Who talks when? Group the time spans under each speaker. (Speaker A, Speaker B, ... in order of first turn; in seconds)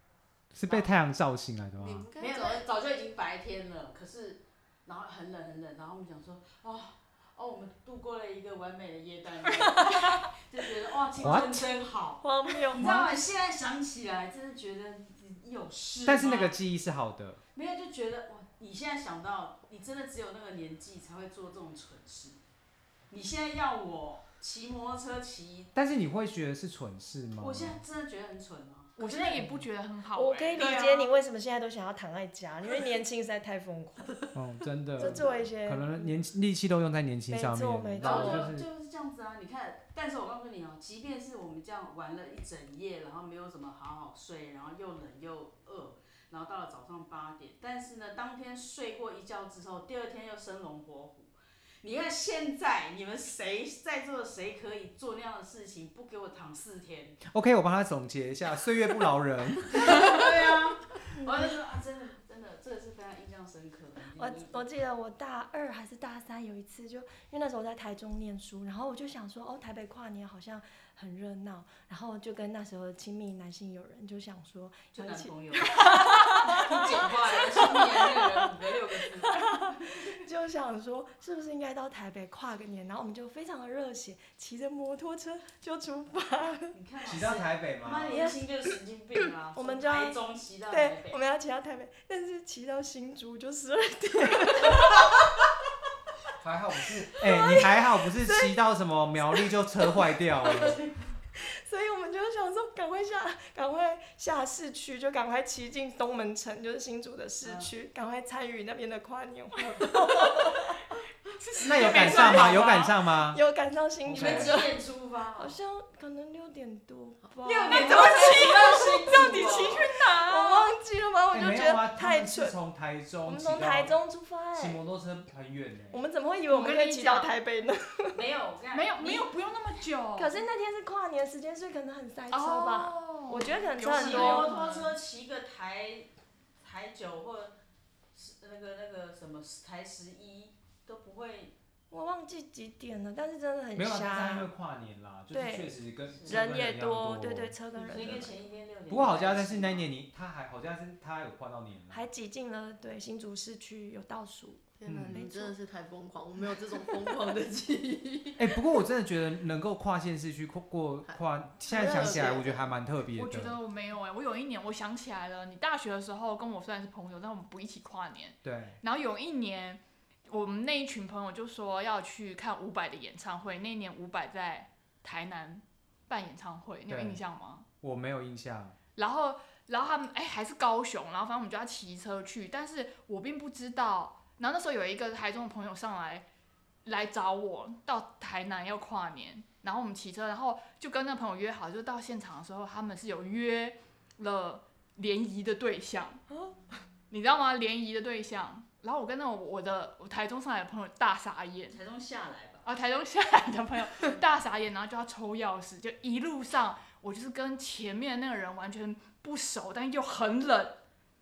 Speaker A: 0.5-2.1, 11.2-11.6, 12.8-13.1, 16.1-17.4, 25.8-27.8, 34.4-38.7, 57.3-60.2, 87.0-88.3, 96.4-100.8, 111.7-113.4, 114.0-114.6, 121.3-124.0, 124.5-126.0, 143.8-147.5, 148.9-152.1, 154.9-155.2, 158.4-163.6, 168.4-168.8, 176.9-177.2, 177.8-178.8
Speaker B: 0.6-0.9, 2.2-16.6, 17.6-22.4, 23.1-25.7, 27.4-29.5, 35.0-35.4, 38.0-57.2, 59.7-64.7, 74.9-80.1, 86.7-91.2, 107.4-107.7, 114.1-115.6, 117.4-119.9, 128.1-129.3, 133.9-136.1, 136.6-137.6, 138.1-141.5, 146.1-146.4, 147.7-149.9, 201.7-202.7
Speaker C: 1.8-2.6, 154.8-158.5, 161.1-162.7
Speaker D: 11.2-11.5, 12.2-12.9, 30.1-36.2, 37.3-38.5, 61.2-61.5, 64.2-78.5, 79.2-86.8, 88.1-88.4, 89.5-95.3, 97.2-98.6, 99.3-100.8, 101.4-110.8, 111.8-112.6, 113.3-114.7, 115.4-119.1, 120.0-122.6, 123.2-124.8, 125.9-128.2, 130.2-134.5, 141.9-144.5, 145.3-148.4, 151.9-155.6, 196.3-196.6
Speaker E: 29.0-31.1, 109.8-110.4, 111.4-113.0, 117.7-120.7, 126.5-127.3, 128.7-130.4, 132.3-135.0, 163.2-177.7, 179.0-186.3, 186.8-196.2, 197.1-201.8, 202.7-210.8